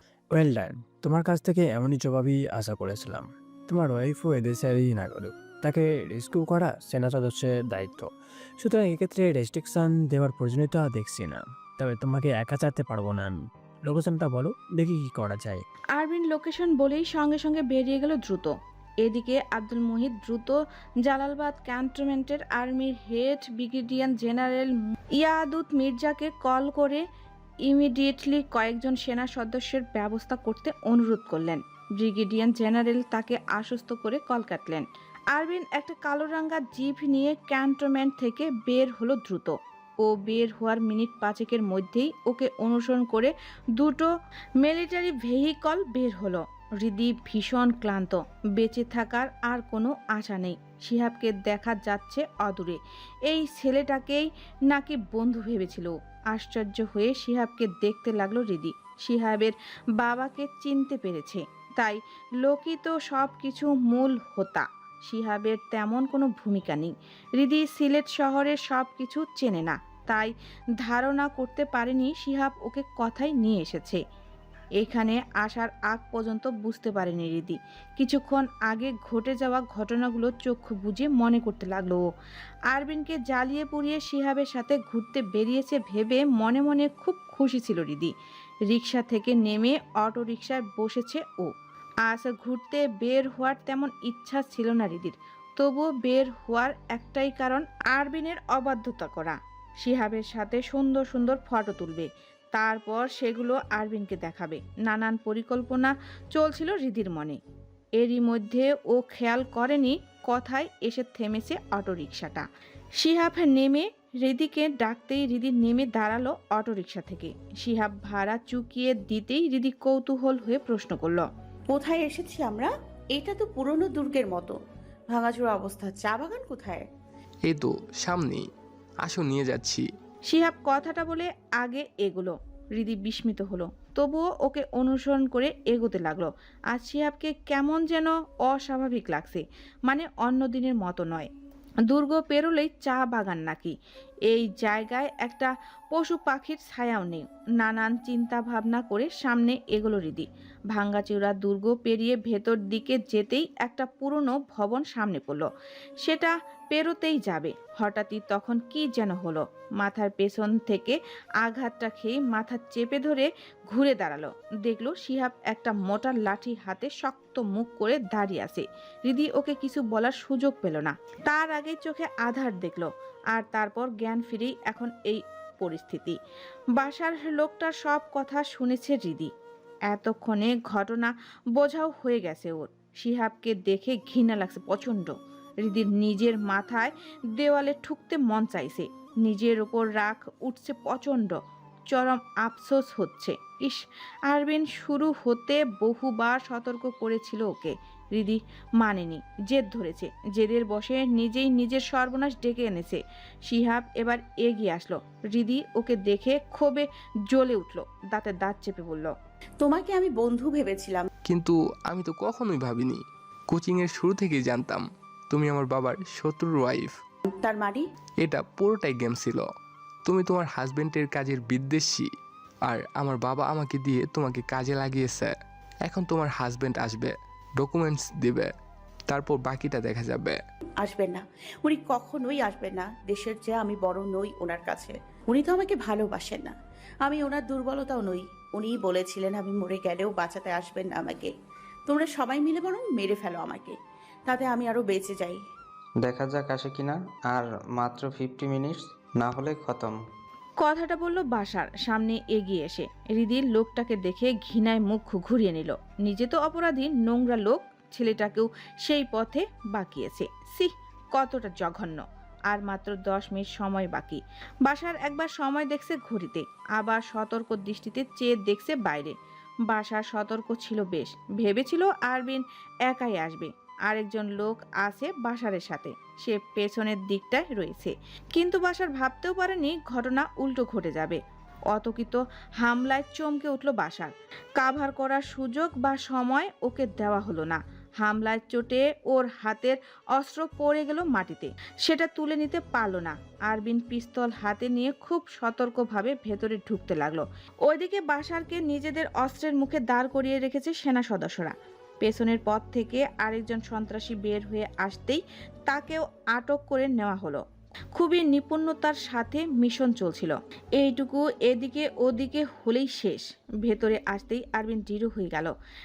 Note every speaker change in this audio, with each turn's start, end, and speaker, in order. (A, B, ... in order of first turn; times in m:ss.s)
0:00.3-0:15.6 A
0:15.9-0:27.0 B
0:27.7-0:44.1 B
0:44.6-1:14.0 B
1:14.8-1:22.0 B
1:22.7-1:28.1 B
1:28.7-1:31.5 B
1:32.1-1:47.4 B
1:48.0-1:52.4 B
1:53.0-2:01.2 B
2:01.7-2:06.9 C
2:07.4-2:08.5 D
2:09.0-2:09.8 D
2:10.3-2:21.3 B
2:21.9-2:23.8 B
2:24.3-2:35.5 B
2:36.0-2:56.2 B
2:56.8-2:59.3 B
2:59.9-3:11.4 B
3:11.9-3:29.1 B
3:29.6-3:31.1 C
3:31.3-3:37.0 D
3:37.3-3:37.8 C
3:38.2-3:39.5 D
3:40.0-3:42.1 D
3:42.7-3:45.3 D
3:45.8-3:48.5 D
3:49.1-3:50.4 D
3:50.8-4:01.3 C
4:01.8-4:05.4 C
4:06.0-4:10.0 E
4:10.6-4:29.1 B
4:29.7-4:41.2 B
4:41.7-5:07.4 B
5:07.9-5:15.5 B